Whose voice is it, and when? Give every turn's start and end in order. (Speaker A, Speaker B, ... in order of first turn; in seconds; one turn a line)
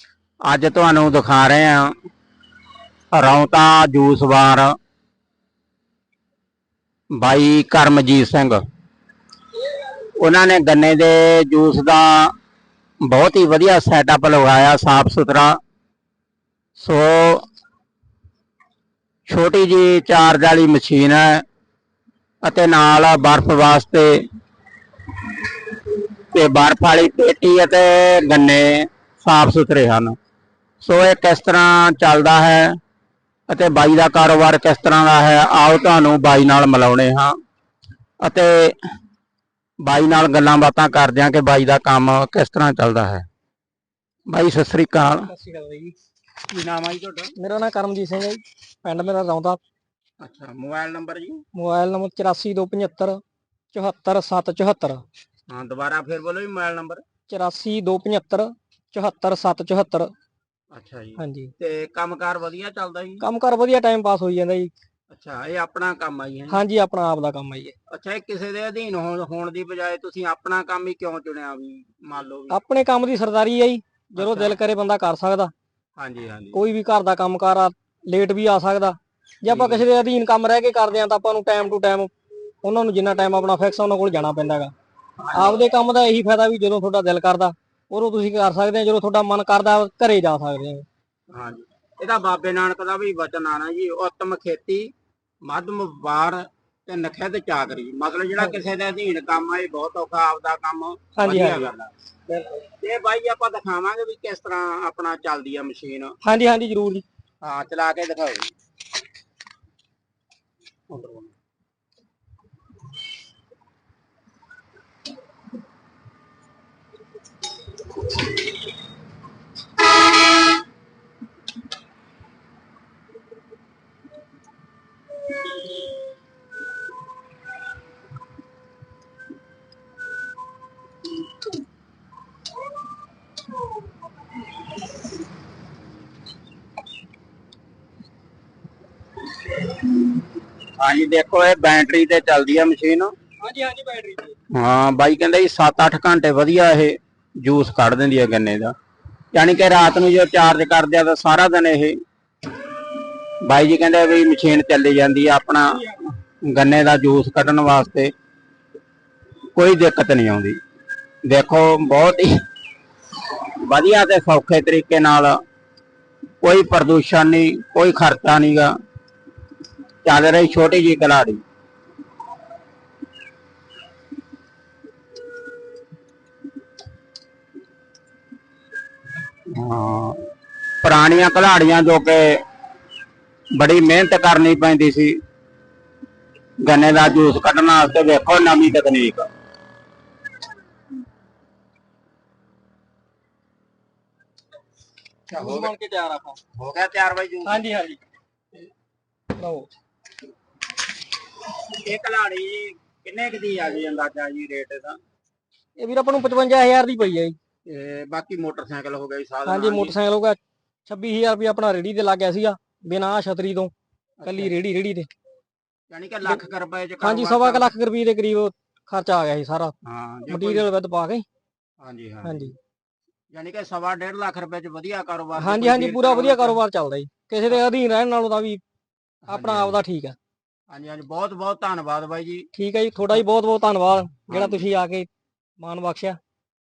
Speaker A: 0.5-1.9
Speaker A: 3.1-4.8
Speaker A: 7.1-8.6
Speaker A: 10.2-12.3
Speaker A: 13.0-15.6
Speaker A: 16.8-17.4
Speaker A: 19.3-21.4
Speaker A: 22.4-24.2
Speaker A: 26.3-30.2
Speaker A: 30.8-32.8
Speaker A: 33.5-37.3
Speaker A: 38.2-38.8
Speaker A: 39.8-43.3
Speaker A: 44.3-45.3
Speaker B: 45.3-45.9
Speaker A: 46.5-47.3
Speaker B: 47.4-49.6
Speaker A: 50.2-51.4
Speaker B: 51.5-53.2
Speaker B: 53.7-55.0
Speaker A: 55.5-57.0
Speaker B: 57.3-60.1
Speaker A: 60.7-63.2
Speaker B: 61.2-61.5
Speaker B: 63.2-64.7
Speaker A: 65.1-66.6
Speaker B: 66.5-67.8
Speaker A: 67.9-72.6
Speaker B: 72.5-75.5
Speaker A: 74.2-74.6
Speaker A: 76.0-76.6
Speaker B: 76.5-82.1
Speaker A: 79.5-79.8
Speaker B: 82.6-84.7
Speaker A: 85.2-85.6
Speaker B: 85.3-90.8
Speaker A: 91.3-94.9
Speaker A: 95.4-106.2
Speaker B: 101.2-101.6
Speaker B: 106.2-107.0
Speaker A: 107.4-108.5
Speaker A: 110.9-111.3
Speaker A: 140.8-143.1
Speaker B: 143.4-144.3
Speaker A: 144.5-148.7
Speaker A: 149.3-152.0
Speaker A: 153.4-158.1
Speaker A: 159.6-160.6
Speaker A: 161.3-162.3
Speaker A: 163.6-165.4
Speaker A: 166.4-168.8
Speaker A: 170.1-171.4
Speaker A: 179.5-180.2
Speaker A: 180.8-182.4
Speaker A: 183.6-185.2
Speaker A: 186.7-189.3
Speaker A: 195.3-195.7
Speaker B: 195.3-196.4
Speaker A: 196.6-197.6
Speaker B: 197.4-198.0
Speaker B: 199.4-199.7
Speaker A: 201.7-205.0
Speaker B: 205.8-207.4
Speaker A: 207.7-209.9
Speaker B: 209.5-213.7
Speaker A: 214.2-214.5
Speaker B: 214.2-215.1
Speaker A: 215.9-217.7
Speaker B: 217.0-219.8
Speaker A: 219.8-220.7
Speaker B: 220.3-221.2
Speaker A: 221.8-222.5
Speaker B: 222.2-222.5
Speaker A: 223.3-226.6
Speaker B: 225.4-228.6
Speaker A: 229.3-229.8
Speaker B: 229.3-230.2
Speaker A: 230.7-232.5
Speaker B: 232.6-235.1
Speaker A: 234.3-234.7
Speaker B: 235.6-236.2